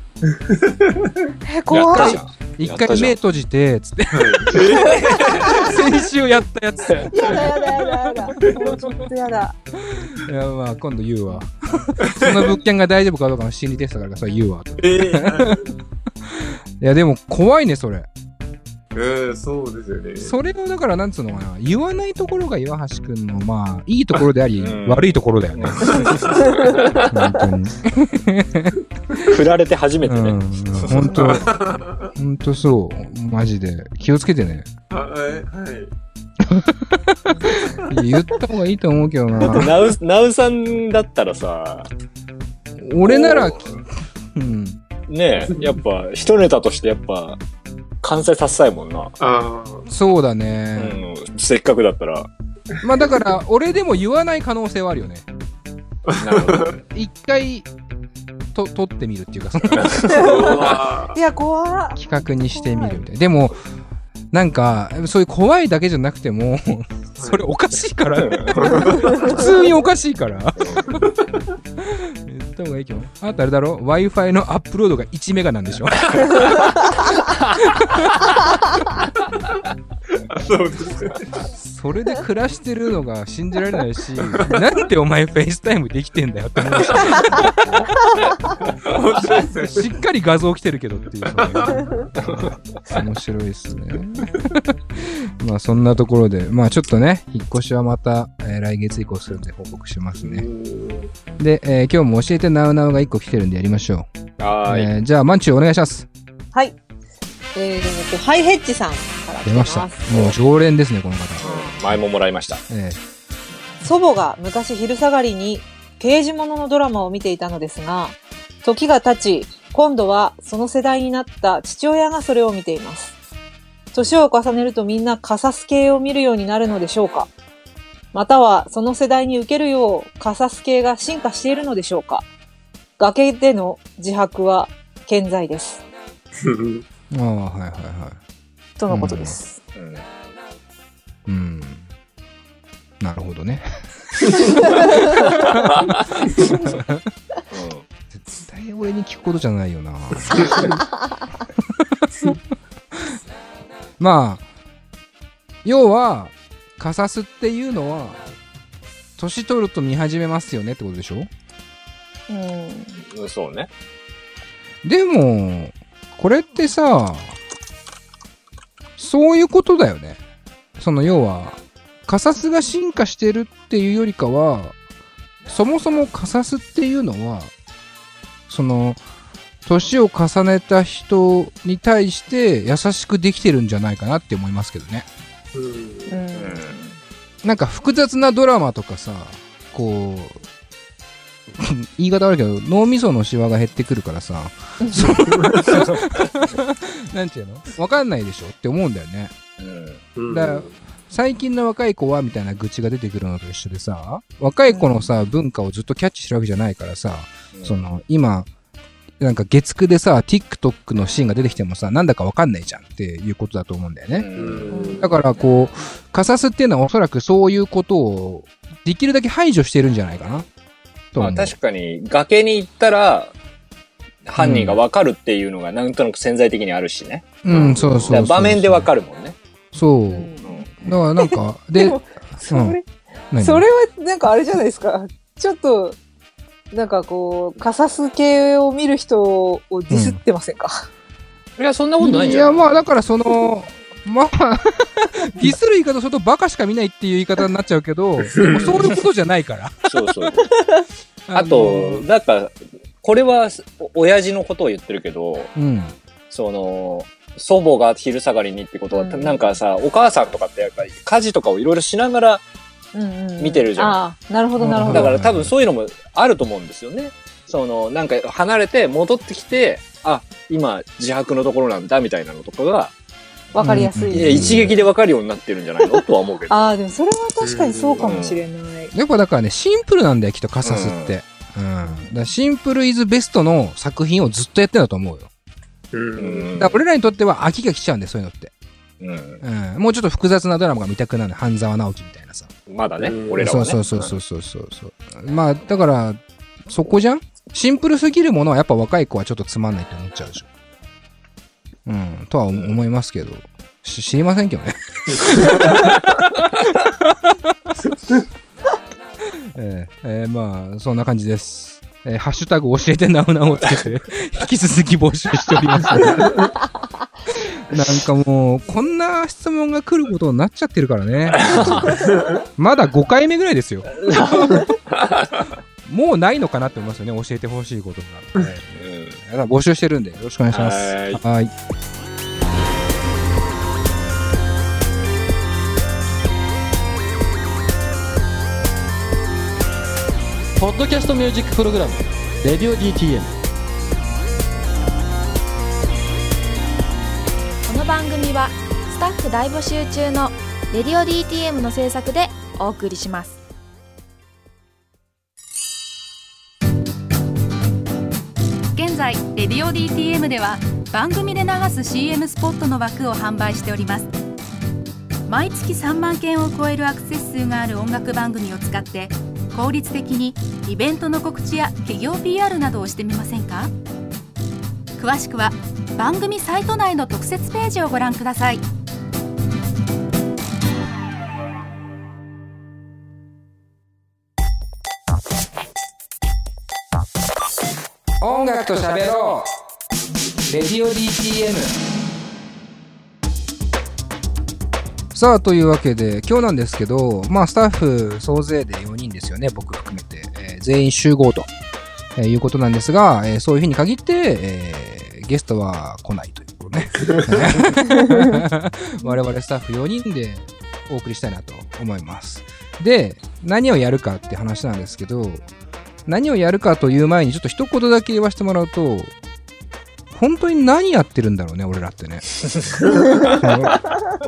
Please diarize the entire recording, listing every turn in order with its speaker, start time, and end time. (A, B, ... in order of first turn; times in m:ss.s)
0:00.2-0:01.2 A
0:01.4-0:02.2 B
0:01.7-0:03.2 C
0:01.7-0:09.0 D
0:04.1-0:05.9 A
0:05.4-0:05.6 B
0:07.1-0:09.6 B
0:09.9-0:15.6 D
0:12.0-0:12.5 A
0:14.8-0:15.7 A
0:16.8-0:18.1 D
0:18.9-0:20.3 A
0:20.2-0:26.1 D
0:24.6-0:27.1 C
0:25.8-0:26.6 A
0:27.1-0:28.8 D
0:29.2-0:31.2 C
0:30.0-0:31.5 D
0:31.1-0:32.1 A
0:32.2-0:34.7 D
0:34.9-0:35.9 A
0:36.4-0:39.8 D
0:37.5-0:37.8 A
0:39.4-0:41.9 C
0:42.8-0:43.7 D
0:43.0-0:43.8 C
0:44.3-0:44.8 D
0:45.1-0:47.4 C
0:45.4-0:45.8 A
0:48.0-0:49.1 C
0:49.2-0:49.9 A
0:49.9-0:51.0 D
0:50.8-0:52.3 C
0:52.8-0:55.2 D
0:56.1-0:56.8 A
0:56.2-0:56.8 C
0:56.9-0:57.7 D
0:58.5-1:00.7 D
0:59.8-1:00.1 C
1:00.1-1:01.2 A
1:00.1-1:03.0 B
1:02.0-1:03.6 D
1:04.3-1:11.0 D
1:07.2-1:07.4 A
1:08.2-1:08.6 C
1:08.6-1:09.4 A
1:09.2-1:09.5 B
1:10.6-1:11.0 C
1:11.8-1:16.7 D
1:17.6-1:18.3 D
1:20.3-1:21.4 A
1:21.5-1:27.6 D
1:24.3-1:24.6 A
1:28.8-1:29.9 A
1:29.6-1:40.4 D
1:31.3-1:32.1 A
1:32.2-1:32.5 C
1:40.2-1:41.1 A
1:41.4-1:44.1 D
1:44.4-1:44.9 C
1:44.6-1:46.1 D
1:47.5-1:50.0 B
1:49.4-1:52.0 D
1:50.1-1:50.3 C
1:51.4-1:52.6 C
1:51.4-1:51.8 B
1:52.7-1:53.0 D
1:53.8-2:03.1 B
2:03.9-2:07.3 B
2:08.1-2:12.2 B
2:13.0-2:15.8 B
2:16.4-2:16.8 A
2:17.1-2:18.2 D
2:18.8-2:19.6 B
2:18.9-2:19.4 D
2:19.7-2:20.0 C
2:21.2-2:21.9 D
2:23.0-2:27.1 D
2:25.7-2:26.0 C
2:27.5-2:27.8 C
2:28.2-2:30.8 D
2:30.3-2:30.8 A
2:31.6-2:32.4 D
2:34.0-2:34.4 D
2:35.6-2:38.2 D
2:39.2-2:41.3 D
2:42.3-2:43.0 B
2:43.0-2:43.7 C
2:44.8-2:47.4 D
2:49.0-2:50.2 D
2:50.8-2:54.7 D
2:55.4-2:57.5 D
2:58.5-2:59.0 D
2:59.6-3:05.1 D
3:05.5-3:06.2 A
3:06.1-3:06.6 B
3:06.3-3:06.9 C
3:07.4-3:10.4 D
3:11.5-3:19.4 D
3:14.8-3:15.1 B
3:15.3-3:15.7 A
3:19.6-3:20.0 C
3:20.2-3:20.7 A
3:20.3-3:28.5 D
3:27.5-3:27.8 C
3:29.2-3:34.3 D
3:34.1-3:34.7 C
3:34.4-3:35.2 A
3:34.7-3:35.1 B
3:35.0-3:40.4 D
3:41.1-3:41.5 D
3:41.2-3:43.3 C
3:44.2-3:49.4 C
3:44.4-3:44.8 D
3:47.4-3:48.9 D
3:47.5-3:48.1 A
3:49.7-3:52.8 D
3:50.1-3:50.6 B
3:50.4-3:50.8 C
3:51.2-3:52.8 B
3:53.3-3:53.6 D
3:53.4-3:56.0 B
3:56.7-4:00.9 B
3:59.9-4:00.2 D
4:01.6-4:02.6 C
4:02.0-4:09.9 D
4:08.3-4:08.7 A
4:09.9-4:10.5 C
4:10.4-4:10.8 B
4:11.3-4:12.0 D
4:11.3-4:15.5 C
4:15.5-4:16.0 D
4:16.3-4:22.4 C
4:18.9-4:19.6 B
4:22.9-4:25.1 B
4:23.4-4:24.0 C
4:24.6-4:25.5 D
4:24.8-4:32.9 C
4:33.5-4:34.6 B
4:33.6-4:34.8 D
4:34.1-4:36.7 C
4:35.8-4:38.9 B
4:37.4-4:38.2 A
4:38.0-4:38.4 C
4:38.9-4:45.3 D
4:40.6-4:41.1 C
4:45.9-4:46.5 A
4:46.2-4:46.8 C
4:46.6-4:48.5 D
4:49.0-4:49.4 C
4:49.4-4:52.5 D
4:52.7-4:54.1 C
4:53.0-4:53.6 A
4:53.4-5:00.5 D
5:01.8-5:06.3 D
5:05.1-5:05.8 A
5:07.0-5:07.7 D
5:07.9-5:08.2 A
5:09.3-5:16.5 D
5:17.3-5:24.7 D
5:21.3-5:22.0 C
5:22.0-5:22.4 A
5:23.9-5:25.5 C
5:25.8-5:31.5 D
5:28.7-5:29.2 C
5:30.5-5:31.2 C
5:40.6-5:43.3 E
5:47.6-5:53.4 F
5:58.7-6:04.1 G
6:05.3-6:13.7 G
6:15.0-6:18.6 G
6:28.2-6:29.5 D
6:30.4-6:31.8 D
6:35.1-6:41.5 D
6:42.2-6:55.4 D
6:47.9-6:48.4 B
6:56.0-6:59.1 D
7:00.1-7:02.4 D
7:03.2-7:03.9 D